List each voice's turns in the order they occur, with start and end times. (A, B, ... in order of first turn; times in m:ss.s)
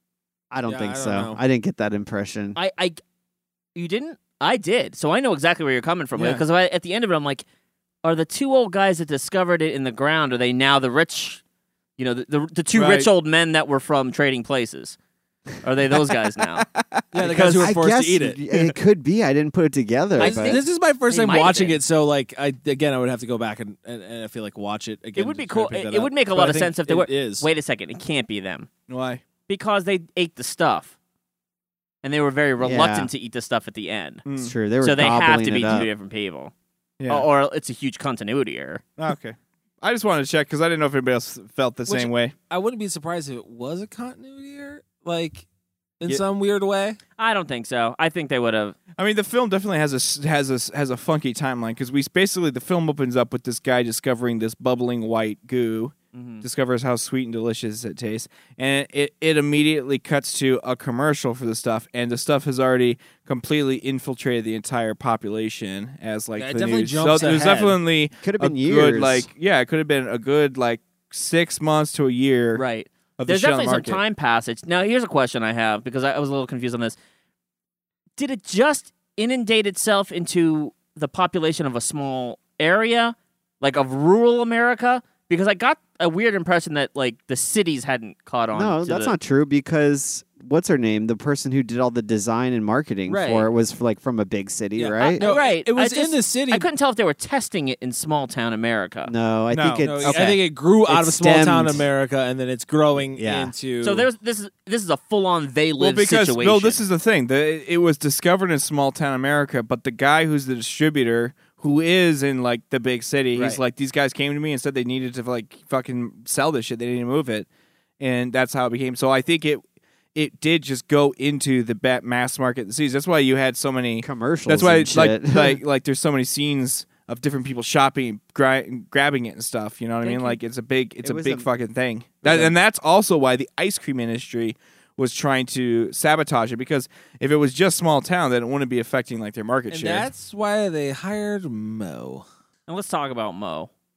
0:00.5-0:02.6 A
0:00.7-0:01.4 B
0:02.6-0:03.0 C
0:03.8-0:07.4 C
0:06.2-0:06.4 D
0:08.0-0:11.4 C
0:12.0-0:15.0 C
0:12.7-0:13.1 D
0:15.6-0:16.7 C
0:16.7-0:17.0 D
0:17.1-0:18.4 B
0:17.2-0:20.6 A
0:20.2-0:21.8 C
0:20.2-0:27.5 B
0:25.2-0:28.7 C
0:28.9-0:29.2 D
0:29.5-0:30.9 C
0:32.0-0:34.2 C
0:32.6-0:33.1 A
0:34.3-0:34.5 D
0:34.3-0:35.9 A
0:34.8-0:36.5 C
0:37.0-0:37.3 D
0:37.1-0:38.8 C
0:39.0-0:42.3 D
0:41.9-0:45.4 B
0:46.0-0:47.0 B
0:47.2-0:48.8 C
0:49.0-1:12.6 D
0:56.1-0:56.4 C
1:06.4-1:07.8 B
1:08.2-1:09.3 A
1:12.6-1:17.0 C
1:13.2-1:14.0 D
1:18.2-1:29.1 C
1:28.5-1:35.3 A
1:33.1-1:33.5 C
1:34.8-1:36.7 B
1:35.0-1:39.1 C
1:39.0-1:41.8 A
1:39.5-1:40.2 D
1:39.8-1:44.1 B
1:43.2-1:43.5 A
1:43.8-1:46.8 C
1:45.8-1:57.5 D
1:53.3-1:53.6 C
1:58.0-1:59.6 D
2:00.2-2:20.1 D
2:04.0-2:05.6 A
2:10.0-2:10.4 C
2:11.0-2:11.5 A
2:19.7-2:22.3 B
2:22.7-2:23.7 C